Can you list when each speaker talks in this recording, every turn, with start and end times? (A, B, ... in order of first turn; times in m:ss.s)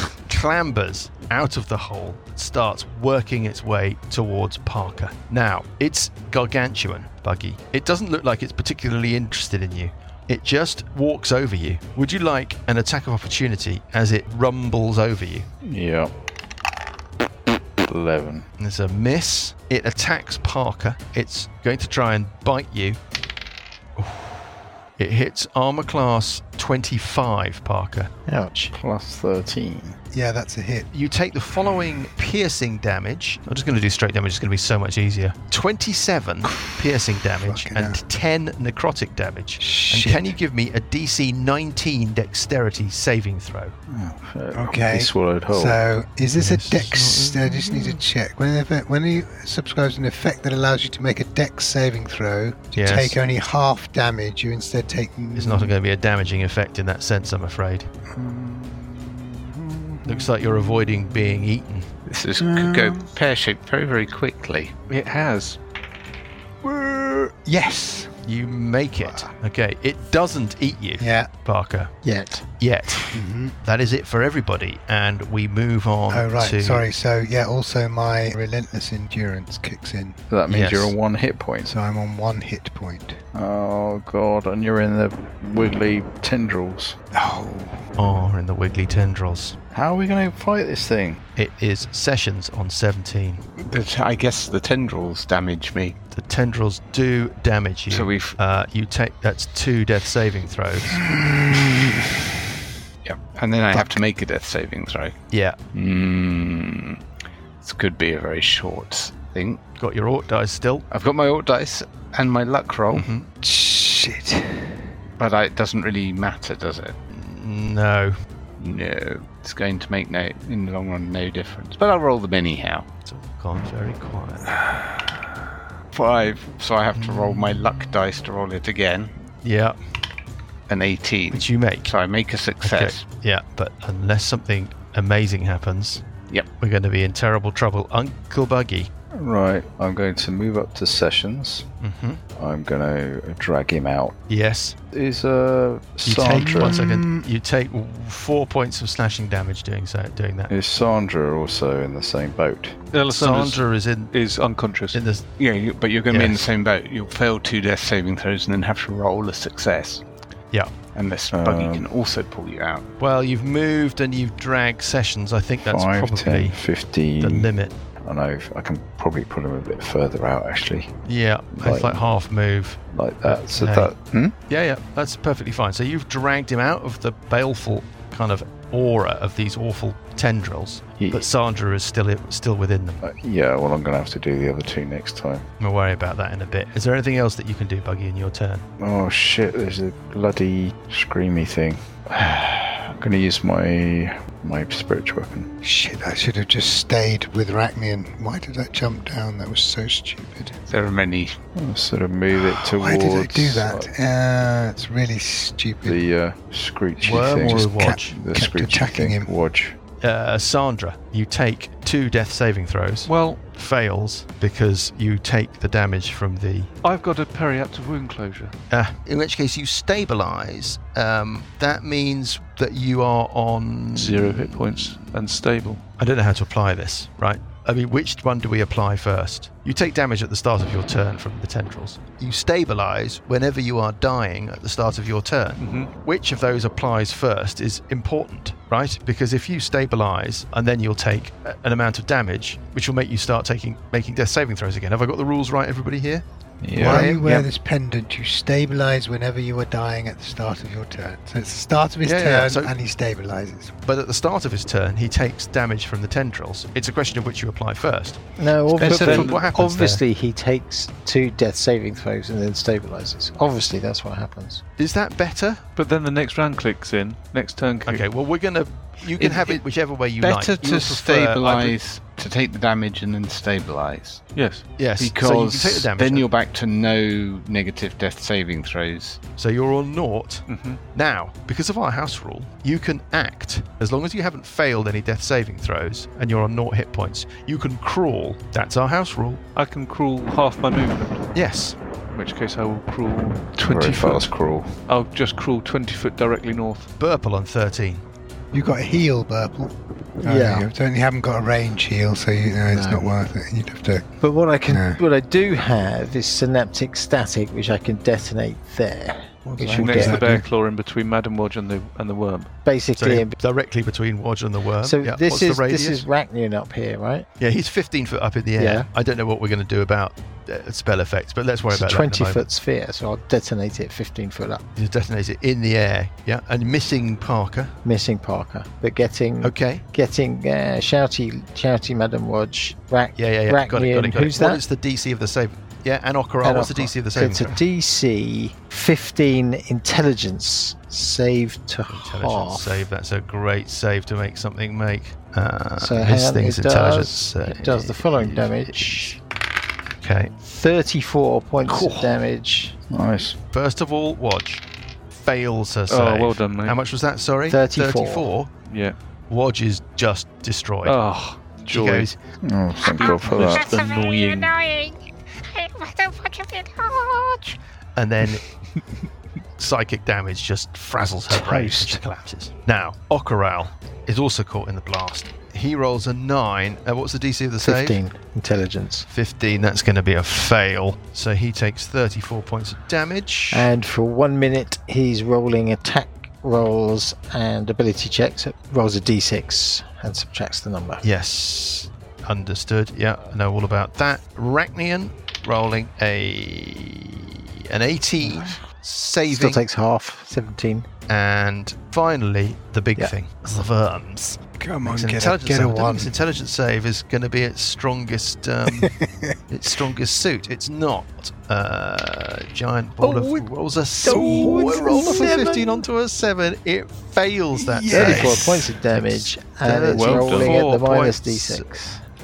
0:00.2-0:15.5 A
0:15.6-0:16.1 B
0:17.8-0:18.4 B
0:18.6-0:23.0 A
0:24.0-0:24.4 A
0:25.0-0:28.1 A
0:28.3-0:28.7 C
0:28.7-0:30.0 B
0:30.1-0:30.9 D
0:30.9-0:43.7 A
0:37.4-0:38.0 D
0:39.6-0:40.3 D
0:43.9-0:45.8 B
0:44.5-0:55.7 D
0:46.4-0:48.0 A
0:52.8-0:53.2 A
0:55.3-0:57.9 A
0:58.1-1:00.3 D
1:00.0-1:01.9 A
1:02.1-1:04.7 E
1:02.4-1:03.1 D
1:04.9-1:05.6 F
1:06.6-1:08.2 D
1:08.2-1:11.9 A
1:09.0-1:09.3 D
1:11.0-1:11.3 D
1:12.0-1:12.5 C
1:12.6-1:13.1 A
1:13.1-1:13.5 D
1:13.6-1:16.8 A
1:16.1-1:20.2 D
1:20.3-1:21.7 B
1:20.5-1:21.0 A
1:21.7-1:23.2 D
1:23.3-1:27.0 B
1:27.1-1:27.8 D
1:28.0-1:29.6 A
1:29.7-1:31.2 B
1:31.4-1:33.4 A
1:33.6-1:36.0 E
1:36.1-1:41.0 A
1:37.9-1:38.4 E
1:41.0-1:42.0 D
1:43.0-1:45.2 E
1:45.3-1:45.6 A
1:45.7-1:47.0 E
1:47.6-1:49.6 E
1:49.8-1:50.8 A
1:50.9-1:53.1 E
1:52.9-1:53.3 A
1:53.4-1:54.7 D
1:55.2-1:57.0 E
1:57.1-1:58.2 A
1:58.6-2:02.9 E
2:03.0-2:04.6 A
2:05.9-2:09.1 E
2:06.9-2:07.9 A
2:09.4-2:09.8 A
2:10.7-2:13.1 E
2:11.3-2:11.9 A
2:12.6-2:16.1 A
2:16.6-2:18.9 A
2:19.1-2:21.7 B
2:21.8-2:22.2 A
2:22.4-2:24.2 B
2:24.3-2:24.8 A
2:24.9-2:26.8 B
2:26.0-2:30.5 A
2:26.3-2:27.2 D
2:30.5-2:32.8 B
2:32.9-2:35.0 F
2:33.1-2:34.1 A
2:34.9-2:35.3 A
2:35.4-2:40.0 E
2:36.1-2:36.5 A
2:40.9-2:42.8 E
2:41.3-2:41.9 B
2:43.0-2:46.6 A
2:45.6-2:47.5 B
2:47.2-2:47.8 A
2:48.0-2:50.9 B
2:51.0-2:53.9 A
2:51.5-2:52.0 B
2:52.9-2:54.3 B
2:54.5-3:03.0 A
3:01.0-3:01.3 B
3:03.0-3:05.4 B
3:05.6-3:08.6 A
3:08.8-3:15.5 B
3:15.6-3:20.6 D
3:20.7-3:21.4 E
3:21.5-3:23.9 B
3:22.3-3:26.0 D
3:25.8-3:29.8 B
3:27.0-3:28.2 A
3:27.0-3:29.3 D
3:30.0-3:36.7 A
3:33.0-3:33.5 F
3:36.8-3:38.6 F
3:38.7-3:45.0 A
3:43.9-3:45.8 F
3:46.0-4:07.5 A
3:55.6-3:55.9 F
4:06.6-4:07.2 B
4:06.8-4:13.7 D
4:12.0-4:12.7 A
4:13.8-4:20.0 A
4:18.4-4:24.6 C
4:18.8-4:19.5 F
4:24.8-4:25.6 A
4:25.8-4:28.0 F
4:27.8-4:31.8 A
4:29.1-4:29.6 E
4:30.2-4:34.2 E
4:34.3-4:34.7 F
4:34.7-4:36.3 A
4:34.8-4:39.2 E
4:39.4-4:49.4 A
4:40.5-4:40.8 F
4:49.5-4:51.3 F
4:51.3-4:51.8 A
4:52.1-4:56.9 F
4:53.6-4:54.8 B
4:57.0-4:58.0 A
4:58.5-5:04.1 D
5:00.2-5:00.7 C
5:02.7-5:03.1 C
5:04.2-5:10.3 C
5:04.7-5:05.0 D
5:09.4-5:10.4 D
5:09.7-5:12.6 F
5:12.6-5:13.4 C
5:13.0-5:16.0 A
5:14.8-5:17.3 C
5:17.4-5:22.4 A
5:18.6-5:18.9 C
5:21.7-5:24.6 C
5:24.8-5:27.7 A
5:27.8-5:34.6 C
5:29.4-5:29.8 A
5:33.2-5:37.6 A
5:36.4-5:42.8 C
5:41.9-5:49.2 A
5:45.8-5:49.2 C
5:50.0-5:50.3 A
5:50.4-5:52.8 C
5:51.6-5:52.2 F
5:52.9-5:53.4 B
5:53.5-5:58.5 A
5:55.9-5:56.8 F
5:57.5-5:58.3 C
5:58.6-5:59.0 F
5:59.3-6:01.0 A
6:00.8-6:02.1 F
6:01.6-6:02.2 A
6:02.4-6:03.9 B
6:02.8-6:07.6 G
6:03.0-6:04.5 F
6:08.0-6:08.4 A
6:09.6-6:18.0 A
6:11.3-6:12.0 C
6:17.6-6:19.1 C
6:19.1-6:23.7 A
6:23.5-6:31.0 C
6:31.0-6:39.6 A
6:38.2-6:38.6 C
6:39.3-6:40.9 C
6:41.1-6:48.9 A
6:44.6-6:46.1 D
6:48.7-6:49.3 D
6:49.5-7:01.7 A
6:54.0-6:55.7 C
6:54.0-6:55.0 D
6:54.1-6:55.2 F
6:57.6-6:58.5 D
6:57.9-7:02.0 C
6:59.9-7:00.6 F